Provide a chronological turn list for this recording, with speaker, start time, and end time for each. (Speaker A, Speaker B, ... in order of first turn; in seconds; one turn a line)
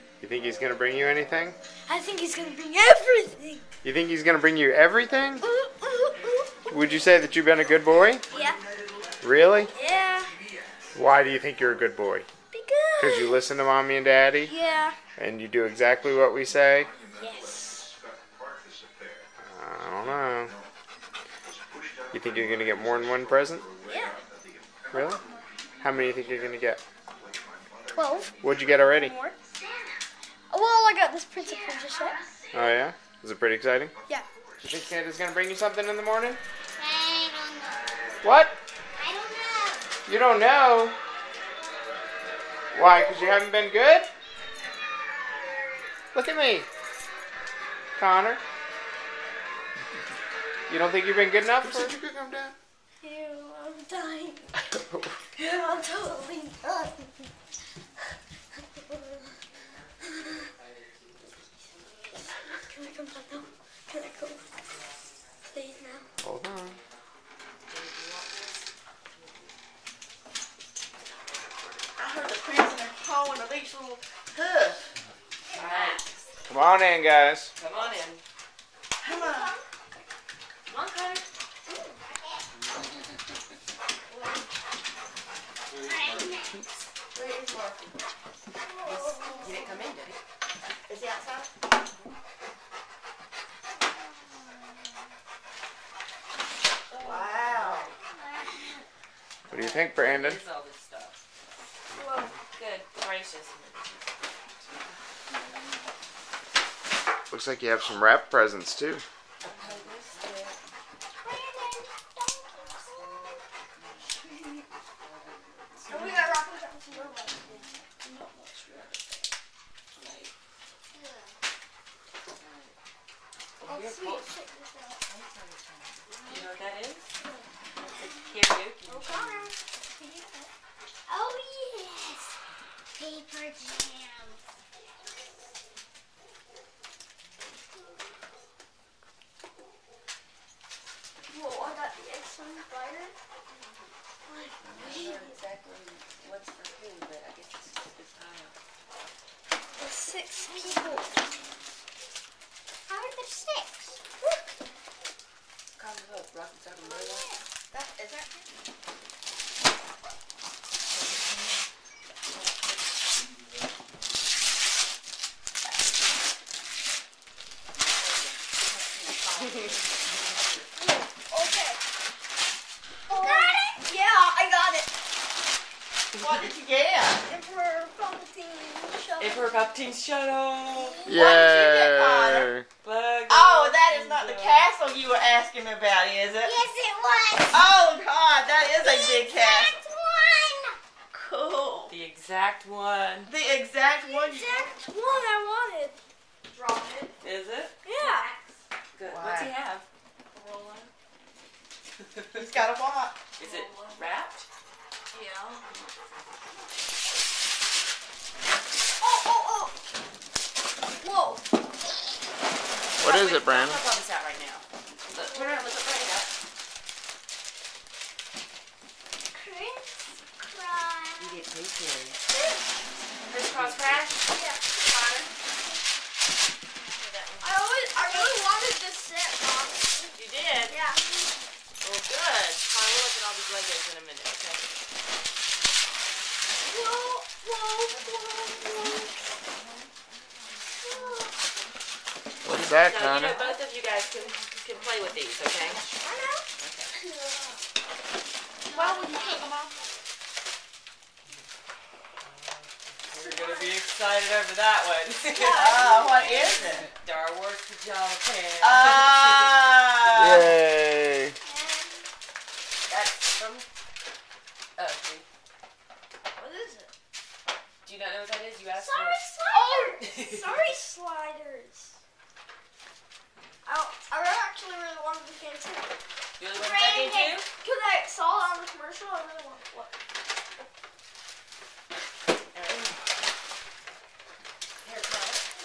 Speaker A: 0.2-1.6
Speaker B: 1.9-3.6
Speaker A: 3.8-5.4
Speaker B: 5.4-7.0
Speaker A: 6.7-8.2
Speaker B: 8.3-8.6
Speaker A: 9.2-9.7
Speaker B: 9.7-10.3
Speaker A: 10.9-12.3
Speaker B: 12.5-13.4
Speaker C: 12.6-13.0
Speaker A: 13.0-14.5
Speaker B: 14.5-15.0
Speaker A: 15.2-16.9
Speaker B: 17.2-17.9
Speaker C: 17.2-17.9
Speaker A: 19.4-20.6
Speaker A: 22.1-23.6
Speaker B: 23.9-24.2
Speaker C: 23.9-24.2
Speaker A: 24.9-25.2
Speaker A: 25.8-26.8
Speaker B: 27.9-28.3
Speaker A: 28.4-29.1
Speaker B: 29.0-29.4
Speaker C: 29.5-30.0
Speaker B: 30.5-32.2
Speaker C: 31.3-32.6
Speaker A: 32.5-33.9
Speaker A: 34.6-36.4
Speaker C: 36.8-37.8
Speaker A: 38.2-38.5
Speaker C: 39.0-39.9
Speaker A: 40.1-41.0
Speaker A: 42.7-44.1
Speaker A: 46.1-46.7
Speaker A: 48.0-48.4
Speaker A: 50.7-52.5
Speaker C: 53.0-54.0
Speaker B: 53.0-54.5
Speaker B: 55.4-57.1
Speaker B: 58.9-59.4
Speaker B: 62.7-64.4
Speaker D: 64.3-65.3
Speaker B: 65.5-66.1
Speaker A: 66.2-66.8
Speaker D: 67.7-69.5
Speaker D: 71.5-71.8
Speaker E: 72.0-74.9
Speaker D: 75.5-76.1
Speaker A: 76.5-77.5
Speaker D: 77.6-78.2
Speaker E: 79.0-79.6
Speaker C: 79.1-79.7
Speaker D: 80.7-81.2
Speaker C: 81.7-82.4
Speaker C: 85.8-86.6
Speaker E: 87.1-88.0
Speaker C: 88.6-89.6
Speaker D: 88.8-90.2
Speaker E: 90.9-91.5
Speaker D: 96.9-98.0
Speaker E: 97.0-97.9
Speaker C: 98.1-98.5
Speaker D: 99.5-101.2
Speaker A: 99.5-100.4
Speaker B: 102.0-102.2
Speaker D: 102.5-105.0
Speaker A: 107.3-109.0
Speaker D: 109.4-110.6
Speaker C: 111.2-113.4
Speaker D: 112.8-114.3
Speaker D: 114.9-116.4
Speaker B: 115.9-117.7
Speaker D: 118.0-118.6
Speaker D: 119.9-120.3
Speaker C: 120.9-121.4
Speaker D: 122.4-122.8
Speaker D: 123.6-124.3
Speaker B: 123.7-125.0
Speaker C: 124.2-124.7
Speaker D: 125.0-127.1
Speaker C: 127.2-127.5
Speaker D: 127.8-129.5
Speaker B: 128.9-129.4
Speaker C: 131.1-132.3
Speaker C: 133.0-134.4
Speaker C: 137.7-138.2
Speaker B: 141.3-143.1
Speaker D: 143.5-143.9
Speaker B: 144.3-145.4
Speaker D: 144.7-148.6
Speaker B: 149.8-151.2
Speaker C: 150.4-150.9
Speaker C: 152.9-154.0
Speaker D: 155.8-157.4
Speaker C: 156.8-157.4
Speaker E: 157.7-158.5
Speaker D: 160.9-161.6
Speaker D: 162.3-162.7
Speaker E: 168.3-169.8
Speaker D: 169.2-170.6
Speaker B: 170.8-171.8
Speaker C: 173.1-173.8
Speaker B: 173.1-174.9
Speaker E: 176.2-177.2
Speaker B: 177.3-179.5
Speaker D: 179.2-181.0
Speaker A: 181.1-182.7
Speaker E: 181.1-182.5
Speaker D: 182.8-184.7
Speaker E: 183.3-186.6
Speaker C: 186.4-187.7
Speaker E: 187.5-189.9
Speaker C: 188.8-190.8
Speaker E: 191.1-191.9
Speaker D: 191.9-193.3
Speaker E: 193.3-195.2
Speaker C: 194.0-195.2
Speaker B: 194.4-196.0
Speaker B: 196.5-197.1
Speaker D: 197.2-197.8
Speaker B: 197.8-198.3
Speaker D: 198.9-199.9
Speaker E: 199.0-199.6
Speaker B: 200.4-200.8
Speaker D: 202.0-202.5
Speaker E: 202.3-203.2
Speaker D: 203.4-204.5
Speaker B: 203.4-203.8
Speaker D: 205.1-205.7
Speaker B: 209.0-209.7
Speaker B: 211.0-211.4
Speaker A: 213.0-213.8
Speaker D: 213.0-216.3
Speaker B: 219.3-219.8
Speaker C: 219.7-221.3
Speaker B: 220.6-221.2
Speaker D: 221.2-222.2
Speaker B: 222.3-222.6
Speaker D: 223.2-224.3
Speaker B: 224.3-225.4
Speaker D: 226.7-227.6
Speaker B: 227.4-230.1
Speaker C: 228.1-228.4
Speaker D: 230.1-230.8
Speaker B: 230.7-231.0
Speaker D: 231.8-234.8
Speaker B: 236.6-239.2
Speaker D: 239.6-240.6
Speaker B: 240.8-241.3
Speaker A: 242.4-243.4
Speaker D: 242.5-245.8
Speaker B: 245.8-246.4
Speaker D: 246.5-246.9
Speaker C: 247.0-247.6
Speaker C: 248.7-249.5
Speaker D: 248.7-249.7
Speaker D: 252.2-260.2
Speaker C: 253.2-253.5
Speaker B: 255.3-256.1
Speaker E: 255.5-256.9
Speaker E: 258.6-260.6
Speaker A: 260.1-261.4
Speaker C: 261.4-262.1
Speaker D: 262.9-263.7
Speaker D: 264.8-265.3
Speaker B: 266.4-266.9
Speaker D: 267.8-270.4
Speaker C: 268.7-270.1
Speaker B: 269.2-271.9
Speaker B: 273.6-275.9
Speaker D: 276.4-277.5
Speaker B: 276.6-279.9
Speaker D: 282.5-283.0
Speaker D: 284.8-285.4